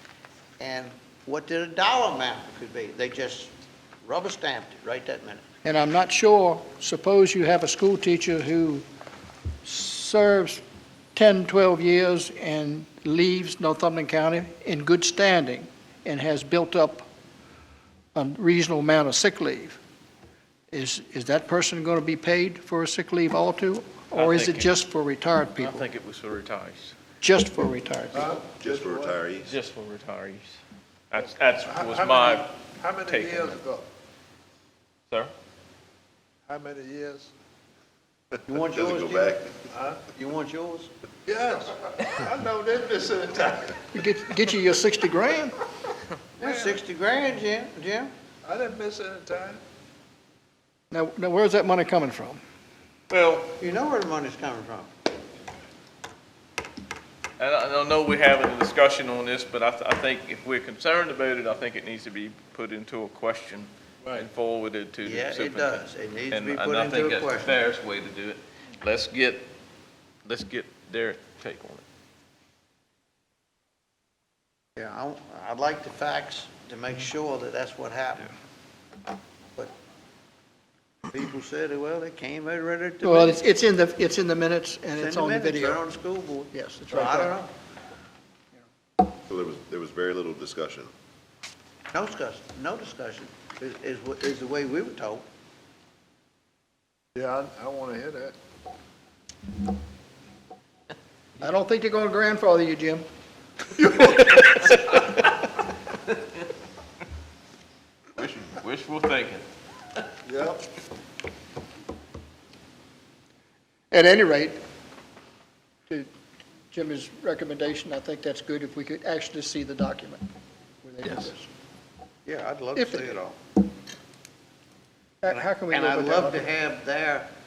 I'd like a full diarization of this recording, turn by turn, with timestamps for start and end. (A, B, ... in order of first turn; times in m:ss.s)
0:00.6-0:05.4 A
0:05.6-0:08.8 B
0:09.6-0:10.6 B
0:11.2-0:17.1 B
0:18.2-0:19.8 B
0:20.7-0:25.8 B
0:24.1-0:24.7 C
0:25.6-0:27.0 C
0:27.2-0:28.3 B
0:28.1-0:29.2 D
0:28.6-0:29.6 E
0:29.4-0:33.6 C
0:31.2-0:33.9 D
0:36.5-0:37.3 D
0:38.5-0:39.6 A
0:38.6-0:39.6 E
0:39.7-0:40.0 D
0:40.1-0:40.9 A
0:41.3-0:43.9 D
0:43.9-0:45.6 B
0:46.4-0:46.8 D
0:46.4-0:48.1 A
0:48.4-0:49.6 D
0:50.9-0:52.4 B
0:53.1-0:53.5 C
0:53.6-0:54.9 A
0:57.4-1:09.5 C
1:05.0-1:07.6 A
1:10.2-1:11.8 C
1:14.8-1:18.3 A
1:21.1-1:23.4 A
1:23.0-1:25.8 B
1:25.0-1:27.5 A
1:26.5-1:27.3 B
1:29.3-1:30.9 E
1:31.9-1:35.3 A
1:37.2-1:38.4 D
1:41.4-1:43.0 B
1:43.8-1:44.7 B
1:48.2-1:49.5 C
1:50.2-1:50.6 D
1:53.9-1:54.6 B
1:56.7-2:00.2 B
2:00.8-2:01.5 B
2:02.3-2:03.4 A
2:02.8-2:03.2 B
2:05.2-2:06.5 B
2:05.3-2:07.3 A